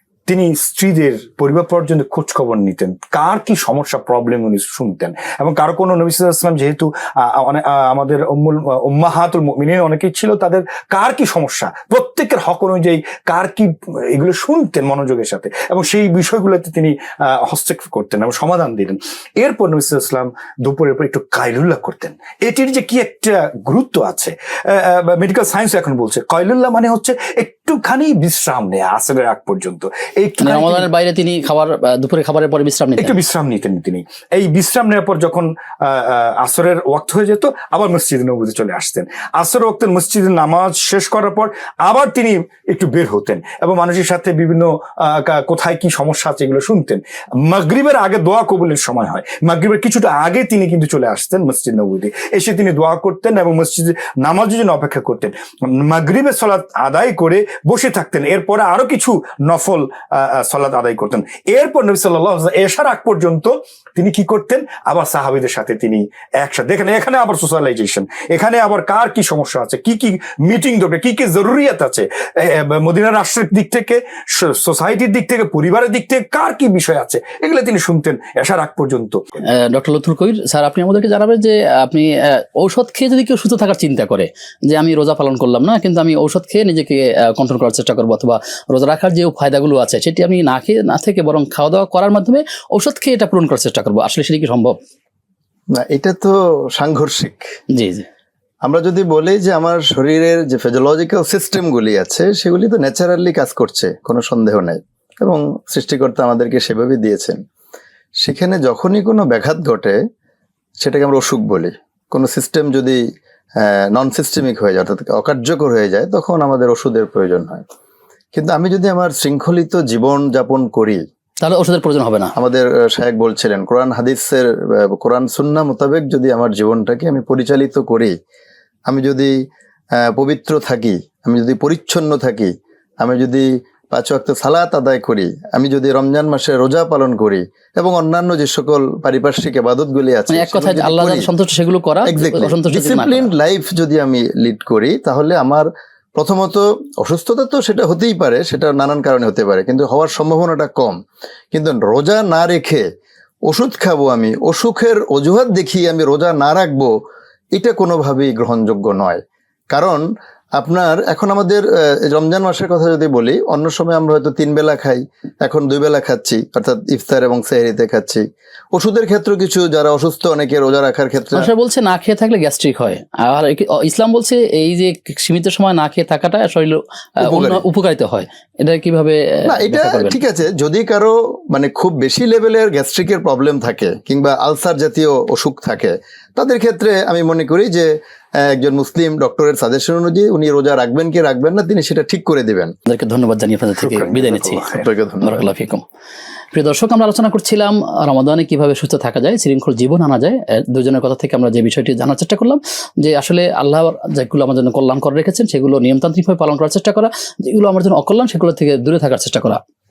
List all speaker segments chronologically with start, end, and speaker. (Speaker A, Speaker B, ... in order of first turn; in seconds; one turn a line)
Speaker A: 0.3-30.9
Speaker B: 30.4-33.1
Speaker A: 33.0-79.2
Speaker B: 79.5-94.7
Speaker C: 95.8-97.4
Speaker B: 97.7-98.0
Speaker C: 98.7-107.4
Speaker C: 108.2-110.0
Speaker C: 110.8-113.0
Speaker C: 113.6-117.6
Speaker C: 118.3-121.0
Speaker B: 121.4-122.3
Speaker C: 122.3-128.1
Speaker C: 128.9-129.3
Speaker C: 130.0-141.3
Speaker B: 140.3-143.3
Speaker C: 142.1-150.9
Speaker C: 151.5-152.8
Speaker C: 153.5-156.9
Speaker C: 157.6-159.2
Speaker C: 159.7-160.0
Speaker C: 160.6-171.5
Speaker B: 171.3-180.2
Speaker C: 177.2-177.6
Speaker C: 179.4-187.9
Speaker C: 188.4-192.7
Speaker B: 192.9-194.7
Speaker A: 193.8-194.9
Speaker C: 194.7-195.4
Speaker B: 195.2-195.8
Speaker B: 196.5-209.6